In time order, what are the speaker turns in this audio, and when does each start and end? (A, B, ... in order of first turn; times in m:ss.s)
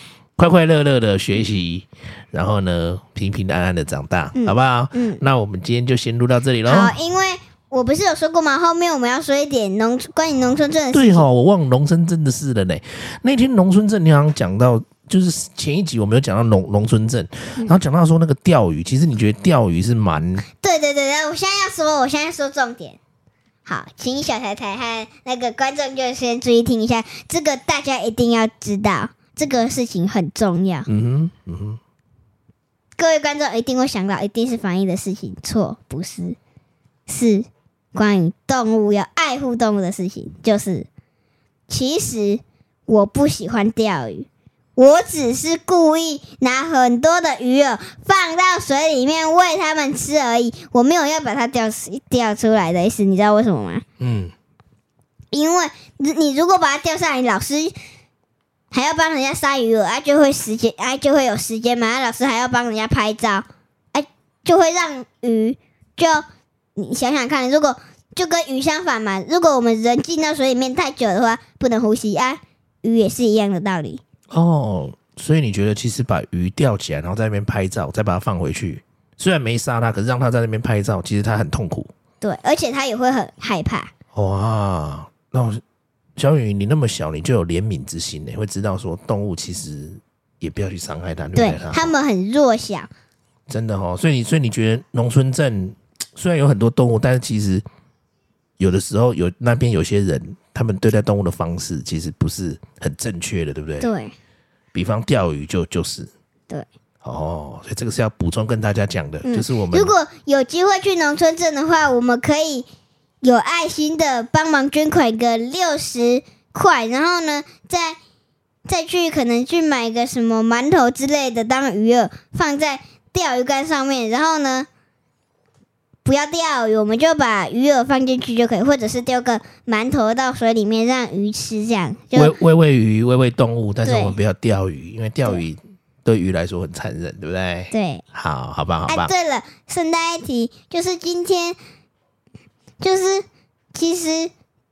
0:00.4-0:06.9 A
0:04.4-0:05.2 B
0:06.6-0:11.2 B
0:10.9-0:20.4 A
0:20.6-0:23.0 B
0:23.7-0:30.9 B
0:30.9-0:31.8 A
0:33.0-0:36.4 B
0:37.1-0:40.9 B
0:41.7-0:53.8 B
0:54.0-0:54.3 A
0:55.3-0:57.7 B
0:58.7-1:06.2 B
1:06.8-1:14.0 B
1:14.3-1:21.9 A
1:22.2-1:23.9 B
1:24.1-1:25.6 A
1:26.2-1:31.9 A
1:31.4-1:32.9 B
1:33.5-1:37.6 A
1:38.6-1:43.9 A
1:43.8-1:44.1 B
1:44.7-1:46.1 A
1:47.0-1:49.9 A
1:49.2-1:52.7 B
1:53.2-1:58.0 B
1:58.7-2:04.7 B
2:06.0-2:12.4 B
2:12.1-2:19.1 A
2:13.8-2:14.2 B
2:17.7-2:18.0 B
2:18.9-2:21.6 B
2:22.8-2:24.3 B